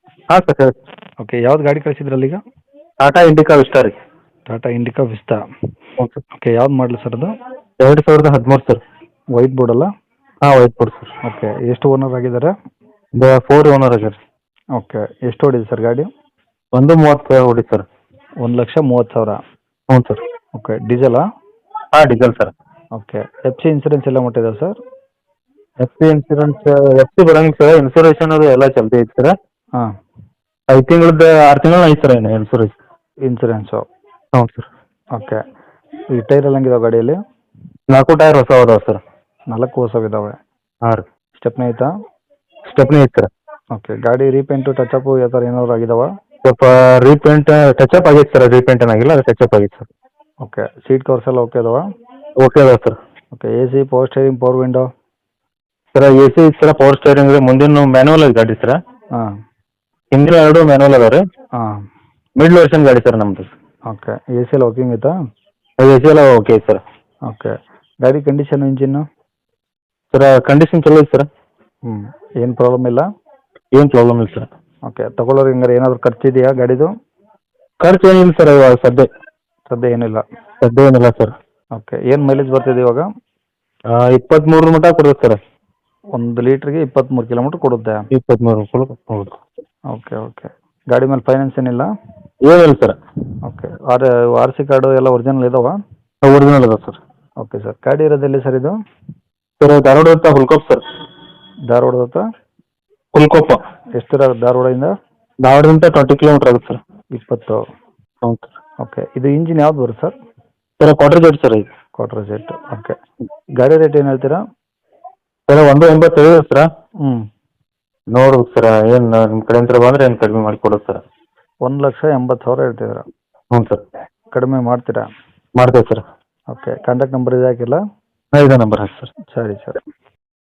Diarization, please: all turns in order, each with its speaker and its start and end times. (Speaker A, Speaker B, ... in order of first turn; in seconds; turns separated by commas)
Speaker A: 0.3-0.8, Speaker B: 1.2-2.4, Speaker A: 3.0-4.0, Speaker B: 4.5-5.4, Speaker B: 6.3-7.3, Speaker A: 7.8-8.8, Speaker B: 9.3-9.9, Speaker A: 10.4-11.1, Speaker B: 11.2-12.5, Speaker A: 13.2-14.2, Speaker B: 14.8-16.1, Speaker A: 16.7-17.8, Speaker B: 18.4-19.4, Speaker A: 19.9-20.2, Speaker B: 20.6-21.2, Speaker A: 21.9-22.5, Speaker B: 22.9-24.8, Speaker A: 25.8-29.3, Speaker A: 30.7-32.7, Speaker B: 33.3-33.8, Speaker A: 34.3-34.7, Speaker B: 35.1-35.4, Speaker B: 36.1-37.2, Speaker A: 37.9-39.0, Speaker B: 39.5-40.4, Speaker B: 41.3-41.9, Speaker A: 42.7-43.3, Speaker B: 43.7-46.1, Speaker A: 46.4-49.9, Speaker B: 50.4-51.8, Speaker A: 52.4-53.0, Speaker B: 53.3-54.9, Speaker A: 55.9-58.8, Speaker A: 60.1-61.2, Speaker B: 61.5-61.8, Speaker A: 62.4-63.5, Speaker B: 63.9-65.1, Speaker A: 65.8-66.8, Speaker B: 67.3-69.0, Speaker A: 70.1-71.3, Speaker B: 71.9-73.0, Speaker A: 73.7-74.5, Speaker B: 74.8-76.9, Speaker A: 77.8-79.1, Speaker B: 79.7-80.2, Speaker A: 80.6-81.3, Speaker B: 81.8-83.1, Speaker A: 83.9-85.4, Speaker B: 86.2-88.0, Speaker A: 88.1-89.3, Speaker B: 89.9-91.9, Speaker A: 92.4-92.9, Speaker B: 93.4-95.8, Speaker A: 96.2-97.0, Speaker B: 97.4-98.8, Speaker A: 99.6-100.8, Speaker B: 101.7-102.2, Speaker A: 103.1-103.6, Speaker B: 104.0-104.9, Speaker A: 105.4-106.8, Speaker B: 107.1-107.6, Speaker A: 108.2-108.5, Speaker B: 108.8-110.1, Speaker A: 110.8-111.7, Speaker B: 112.0-112.9, Speaker B: 113.6-114.4, Speaker A: 115.5-116.7, Speaker A: 118.1-121.0, Speaker B: 121.6-123.0, Speaker A: 123.5-123.8, Speaker B: 124.3-125.1, Speaker A: 125.6-126.0, Speaker B: 126.5-127.8, Speaker A: 128.3-129.1, Speaker B: 129.3-129.8